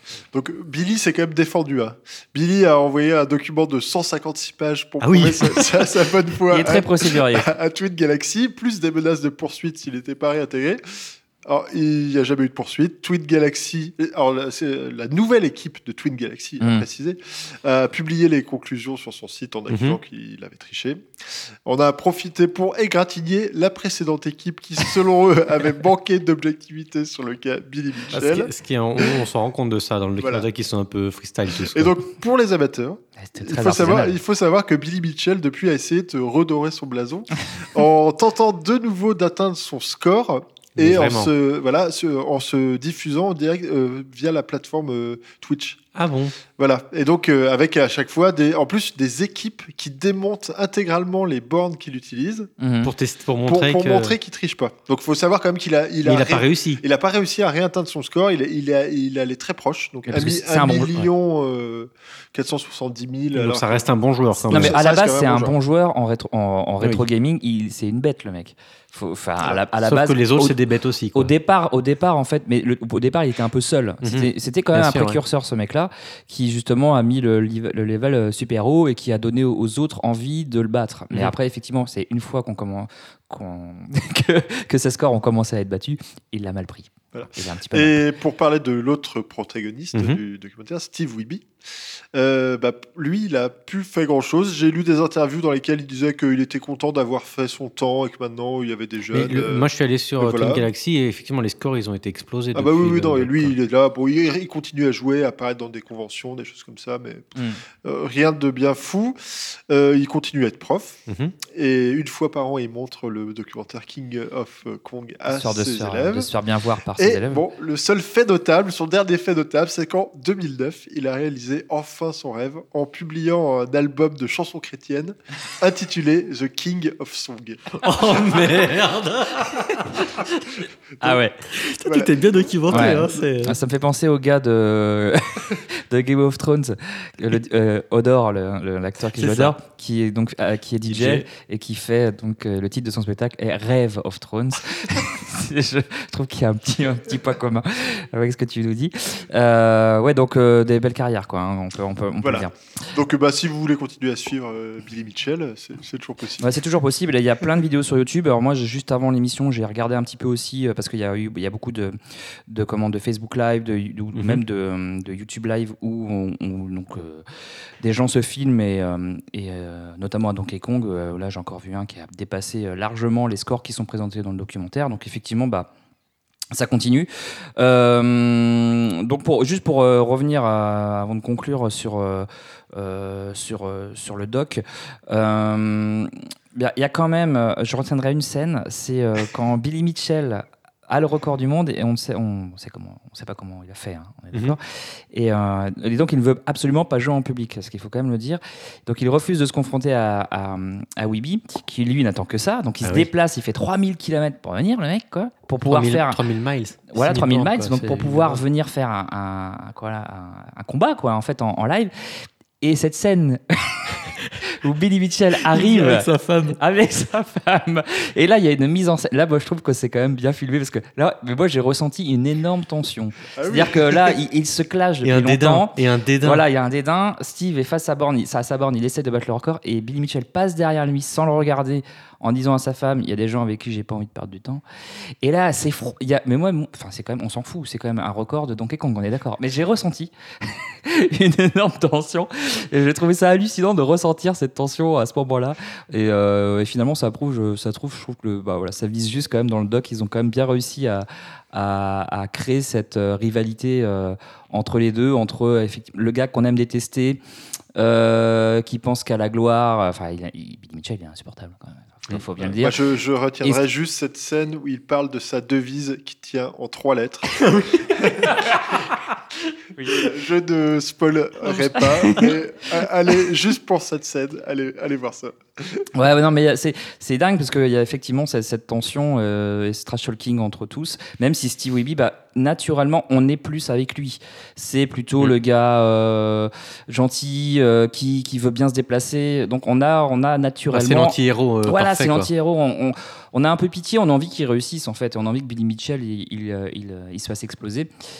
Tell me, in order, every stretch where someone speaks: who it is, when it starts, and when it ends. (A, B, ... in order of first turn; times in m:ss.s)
0:00.3-0:29.2 A
0:05.0-0:06.0 B
0:06.5-0:07.5 C
0:16.6-0:16.8 C
0:19.7-0:20.0 B
0:28.1-0:31.9 B
0:30.2-0:30.4 A
0:31.7-0:45.8 A
0:33.2-0:34.2 C
0:40.8-0:41.3 B
0:45.9-0:46.4 B
0:46.6-0:52.5 A
0:52.6-0:52.9 C
0:52.8-0:54.1 B
0:53.4-1:03.9 A
0:56.0-0:56.8 B
1:00.1-1:01.1 C
1:03.3-1:04.8 B
1:04.4-1:05.6 A
1:04.5-1:10.6 C
1:09.8-1:11.3 B
1:11.1-1:28.0 C
1:14.0-1:15.2 B
1:27.1-1:31.5 A
1:29.9-1:30.2 B
1:32.1-1:39.6 A
1:39.1-1:43.6 B
1:40.2-1:40.7 A
1:42.5-1:56.3 A
1:47.4-1:47.6 C
1:51.1-1:51.3 B
1:55.3-1:57.4 C
1:57.0-2:07.7 A
2:07.7-2:10.6 B
2:11.0-2:11.4 C
2:11.5-2:13.6 B
2:11.8-2:12.1 A
2:12.7-2:13.0 A
2:12.7-2:32.5 C
2:19.1-2:19.5 B
2:20.8-2:21.2 B
2:32.2-2:36.5 A
2:36.4-2:42.0 C
2:42.5-2:47.2 C
2:44.1-2:44.4 B
2:47.8-2:55.7 C
2:56.5-3:26.2 C
3:22.8-3:23.1 B
3:25.6-3:28.4 B
3:26.9-3:31.9 C
3:32.6-3:54.6 C
3:35.4-3:36.6 B
3:43.3-3:44.2 A
3:45.0-3:46.4 B
3:55.2-4:17.2 C
4:17.8-4:22.8 C
4:22.4-4:27.3 A
4:27.4-4:28.2 B
4:29.8-4:30.0 C
4:29.9-4:35.8 A
4:31.8-4:32.3 C
4:35.9-4:57.9 C
4:50.7-4:52.3 B